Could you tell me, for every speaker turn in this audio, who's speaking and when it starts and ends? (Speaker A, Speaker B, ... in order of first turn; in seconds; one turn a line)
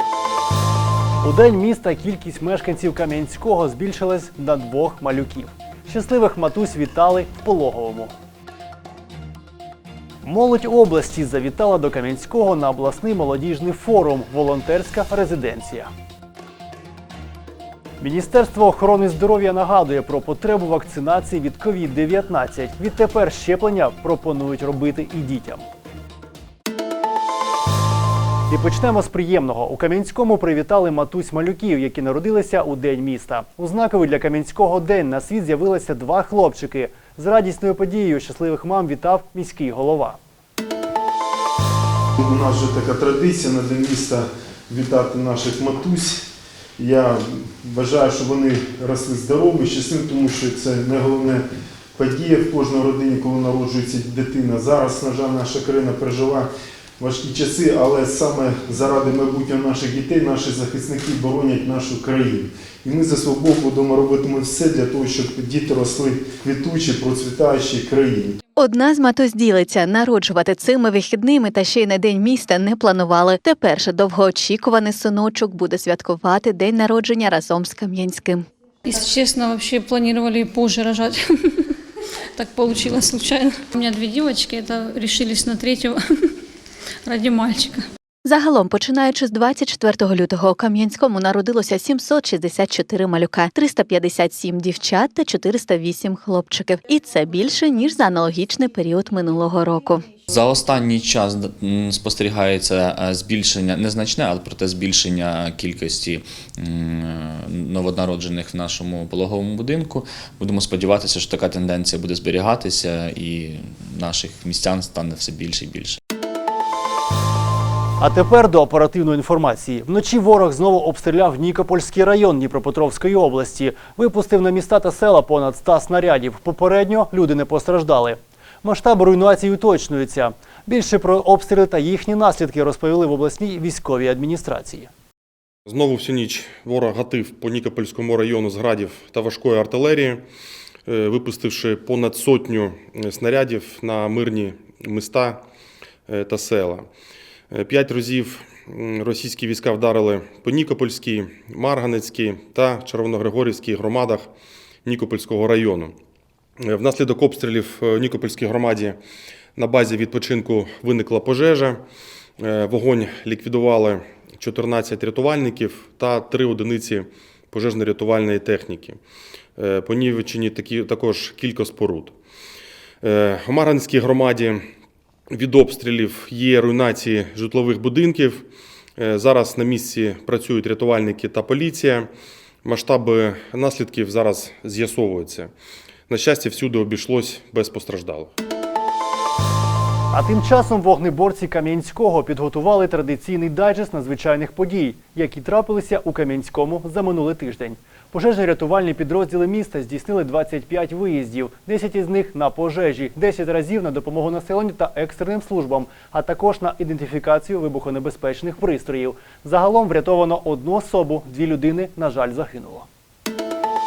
Speaker A: 1.2-8.1
Speaker A: 10.2-15.9
Speaker A: 18.0-25.6
Speaker A: 28.5-40.2
Speaker B: 42.2-46.2
Speaker B: 46.8-51.4
Speaker B: 52.0-56.5
Speaker B: 57.0-68.4
Speaker C: 68.6-78.5
Speaker D: 78.8-81.2
Speaker D: 82.4-86.0
Speaker D: 87.0-87.8
Speaker C: 88.2-100.1
Speaker E: 100.3-116.0
Speaker A: 118.0-134.9
Speaker F: 135.7-140.2
Speaker F: 140.8-145.4
Speaker F: 146.1-146.9
Speaker F: 147.5-154.3
Speaker F: 154.8-155.9
Speaker F: 156.6-159.0
Speaker F: 159.6-161.8
Speaker F: 162.4-169.0
Speaker F: 169.6-172.1
Speaker F: 173.0-174.6
Speaker F: 175.3-182.1
Speaker F: 182.6-185.5
Speaker F: 186.1-188.3
Speaker A: 190.1-212.9